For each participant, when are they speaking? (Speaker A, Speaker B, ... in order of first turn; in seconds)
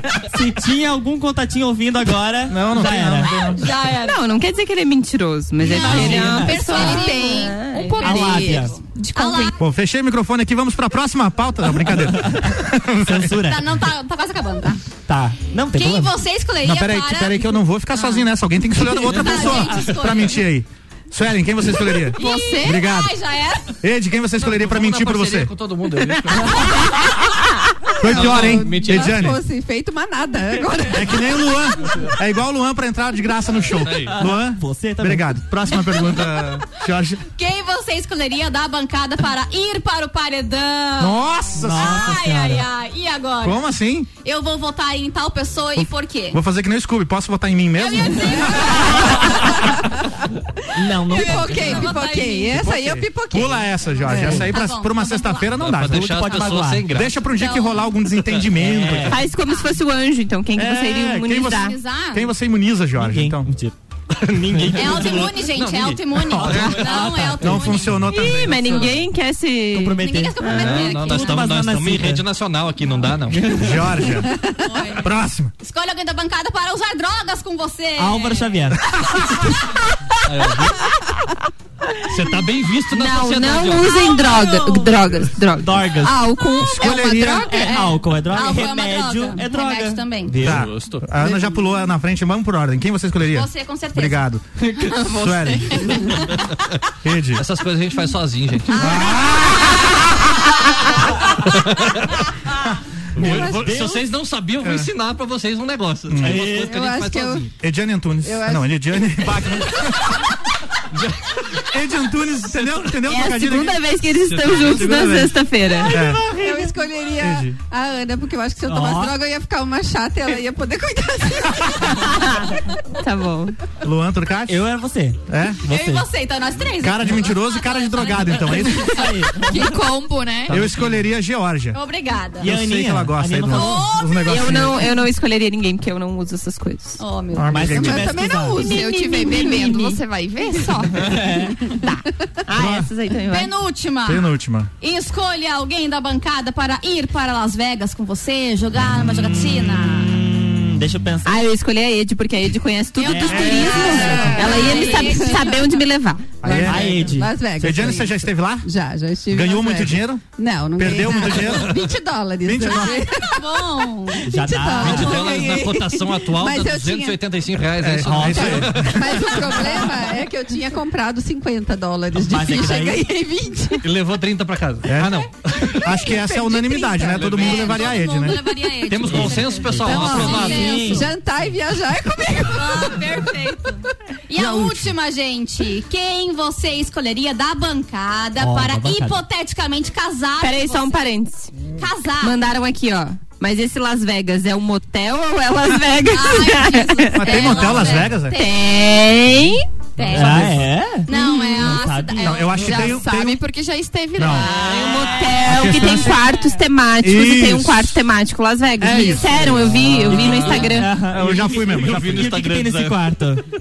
Speaker A: 0.3-3.4, 5.6-6.9, 8.0-8.8, 12.1-12.5, 13.0-13.7, 15.1-16.2, 34.0-35.3, 41.6-42.7, 50.8-51.7, 55.9-56.9, 58.6-59.2, 63.0-63.7, 64.3-65.2, 66.5-68.0, 69.7-72.2, 73.3-73.7, 78.0-78.8, 84.1-85.0, 85.6-86.2, 87.5-90.7, 103.2-104.0, 106.2-106.8, 115.9-116.7, 118.7-119.2, 124.5-126.1, 128.9-129.7, 132.4-133.9, 137.5-138.6, 140.9-141.6, 148.9-151.4, 153.1-154.4, 156.5-157.3, 164.3-165.4, 168.0-168.7, 172.1-173.1, 179.1-181.1, 188.4-189.2, 200.0-202.8, 204.4-205.4, 209.4-213.4
Speaker B: 2.5-3.6, 9.6-13.4, 16.6-23.1, 23.8-25.5, 28.0-29.4, 30.9-37.2, 41.0-42.2, 43.4-44.1, 45.8-49.5, 52.5-59.2, 60.6-63.5, 66.3-66.8, 67.4-68.8, 73.5-74.3, 75.0-75.5, 86.6-87.5, 90.4-96.1, 97.0-97.4, 98.8-100.1, 102.6-103.7, 104.6-104.9, 106.1-106.5, 107.6-110.2, 111.6-113.8, 114.5-115.4, 115.9-116.3, 117.2-117.6, 123.8-124.6, 125.3-125.6, 126.8-129.1, 130.5-131.8, 132.4-134.8, 137.3-138.1, 142.5-142.9, 144.1-144.7, 153.4-154.1, 156.4-158.7, 159.3-160.2, 160.8-161.8, 162.4-163.1, 167.8-169.0, 174.9-178.4, 184.3-184.9, 197.2-198.4, 202.2-203.4, 204.2-204.5, 205.4-206.2, 207.0-207.9, 208.8-212.2
Speaker C: 3.6-4.2, 5.7-9.5, 13.4-14.8, 15.8-18.3, 18.9-20.4, 22.1-23.7, 37.4-43.6, 44.2-46.4, 47.8-49.5, 51.1-52.6, 53.9-55.6, 57.4-58.0, 59.5-59.8, 61.5-62.3, 64.8-68.1, 70.0-71.5, 74.6-75.0, 75.6-78.5, 87.5-90.4, 93.3-94.3, 98.7-99.4, 125.7-129.1, 131.7-132.5, 133.5-134.4, 137.0-137.7, 143.3-150.1, 153.0-155.8, 162.7-164.2, 176.5-181.0, 182.5-191.1, 191.8-192.5, 196.1-198.5, 200.0-200.5, 201.1-203.0
Speaker D: 3.7-9.5, 22.1-22.9, 59.1-61.8, 68.0-71.0, 82.9-87.3, 113.0-116.0, 122.1-123.6, 134.2-137.0, 138.6-140.0, 141.6-143.5, 151.2-156.4, 190.4-191.5, 192.2-199.7, 201.1-201.7, 204.3-211.0
Speaker E: 6.6-7.0, 28.0-31.5, 51.1-54.5, 91.2-91.7, 103.2-103.8, 106.4-107.5, 108.2-108.7, 116.3-122.1, 137.7-138.8, 153.6-155.6, 156.4-163.4, 164.1-167.2, 168.2-173.8, 176.3-177.1, 179.8-183.1
Speaker F: 7.8-8.7, 86.0-87.8, 129.3-130.6, 138.6-141.1, 202.5-204.7
Speaker G: 24.4-26.8, 28.0-29.4, 33.7-34.2, 51.5-51.8, 55.6-57.1, 64.2-67.1, 68.4-68.9, 70.5-73.6, 80.2-80.8, 82.1-84.1, 90.4-91.0, 97.4-99.0, 101.5-102.1, 103.2-107.5, 112.5-113.0, 114.3-115.1, 130.6-131.0, 164.8-169.7, 173.8-176.2, 177.1-178.0, 178.9-180.8, 210.1-210.7, 211.6-213.0